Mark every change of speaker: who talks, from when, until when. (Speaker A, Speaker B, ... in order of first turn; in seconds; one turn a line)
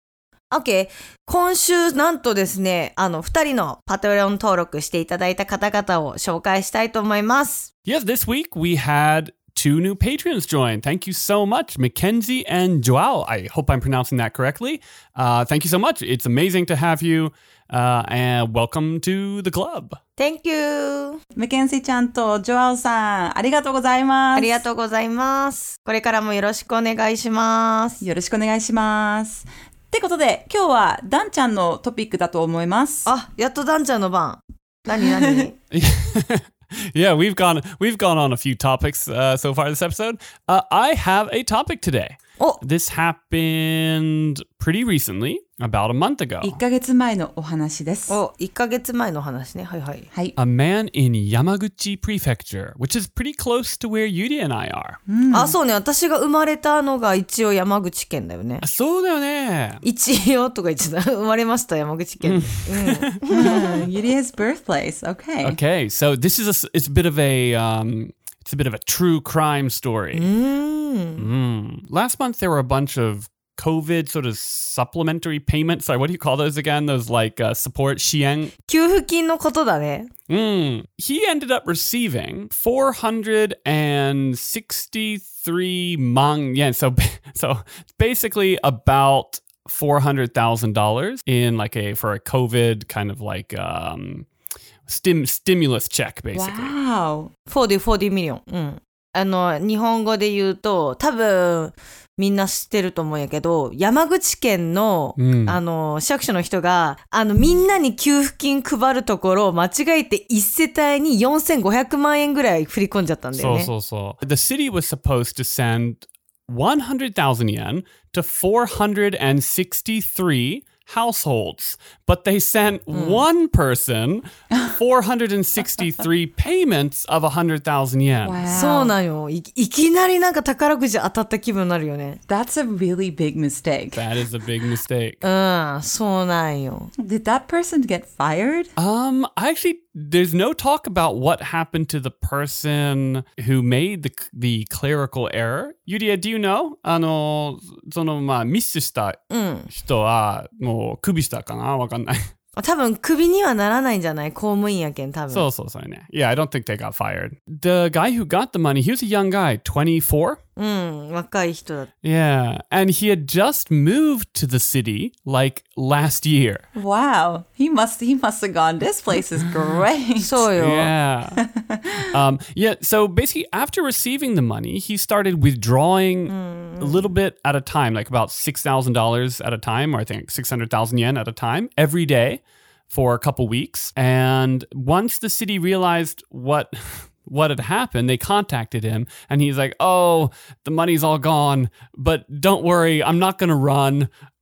Speaker A: 0.5-7.7
Speaker B: 7.9-20.0
Speaker A: 20.2-21.2
Speaker C: 21.4-24.6
Speaker A: 24.4-28.0
Speaker C: 28.0-33.1
Speaker A: 33.1-35.5
Speaker C: 34.9-35.5
Speaker B: 35.7-46.6
Speaker C: 46.4-48.2
Speaker A: 48.1-50.1
Speaker B: 50.4-55.0
Speaker C: 55.1-55.6
Speaker A: 55.3-58.6
Speaker B: 58.6-59.8
Speaker A: 59.8-63.6
Speaker B: 62.2-63.8
Speaker C: 63.3-65.6
Speaker B: 65.4-70.3
Speaker A: 70.1-71.3
Speaker B: 71.2-78.5
Speaker A: 78.7-80.1
Speaker B: 80.3-94.3
Speaker B: 94.9-96.7
Speaker C: 96.3-97.3
Speaker A: 97.5-113.7
Speaker B: 105.2-105.6
Speaker B: 113.3-128.4
Speaker A: 122.9-123.3
Speaker C: 128.2-129.0
Speaker A: 128.5-132.2
Speaker C: 132.3-134.1
Speaker B: 133.9-135.2
Speaker A: 135.2-136.9
Speaker C: 137.0-138.7
Speaker B: 138.8-149.2
Speaker A: 149.3-149.7
Speaker B: 149.7-152.2
Speaker A: 152.6-155.5
Speaker B: 155.3-160.4
Speaker A: 160.6-161.9
Speaker B: 162.0-166.6
Speaker C: 166.8-170.5
Speaker A: 170.2-170.9
Speaker B: 170.6-171.4
Speaker C: 171.4-172.1
Speaker B: 172.1-194.1
Speaker A: 176.3-177.1